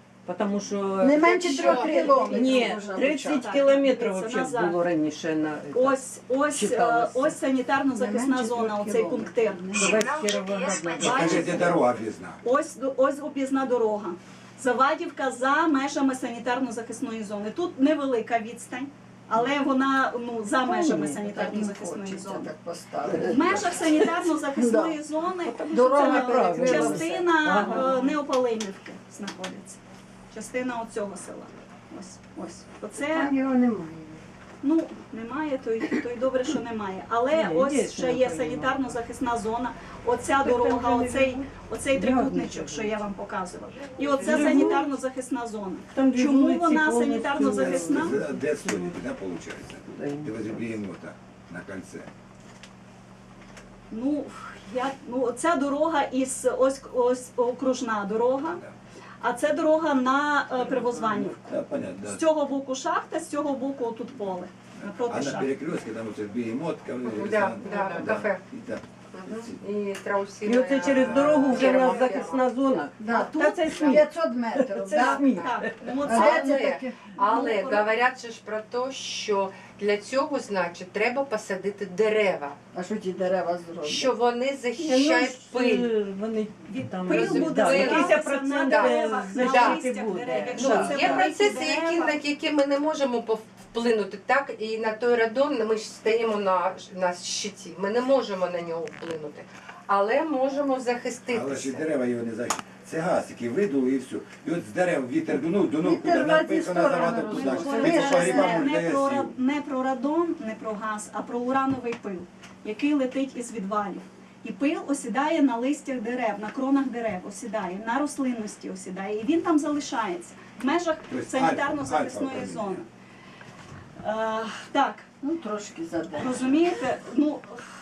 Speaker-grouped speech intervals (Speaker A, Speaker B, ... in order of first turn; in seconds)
Speaker A: 0.3-7.4, 9.7-11.8, 20.8-21.2, 25.4-28.2, 37.3-39.0, 40.4-43.1, 44.2-45.0, 45.9-49.0, 49.9-50.6, 60.5-61.3, 70.4-75.8, 84.8-91.4
Speaker B: 1.0-3.7, 7.9-10.1, 20.7-23.8, 24.5-25.0, 25.7-27.9, 33.1-33.6, 73.0-77.1, 82.7-84.2, 105.8-108.7, 125.2-126.7
Speaker C: 1.2-2.8, 67.0-68.4, 69.1-72.5, 73.7-74.0, 75.9-82.6, 83.8-85.9, 87.1-89.8, 90.5-101.8
Speaker D: 3.2-4.8, 5.7-9.9, 10.9-11.7, 12.4-22.5, 23.2-29.8, 30.3-33.4, 34.6-48.2, 53.9-58.6, 59.2-65.5, 74.9-77.9, 86.7-92.2, 107.2-122.9, 124.0-125.1, 126.2-127.7
Speaker E: 10.9-12.4, 23.3-23.6, 47.4-52.1, 61.3-62.2, 65.0-69.6, 101.3-109.3, 121.1-122.8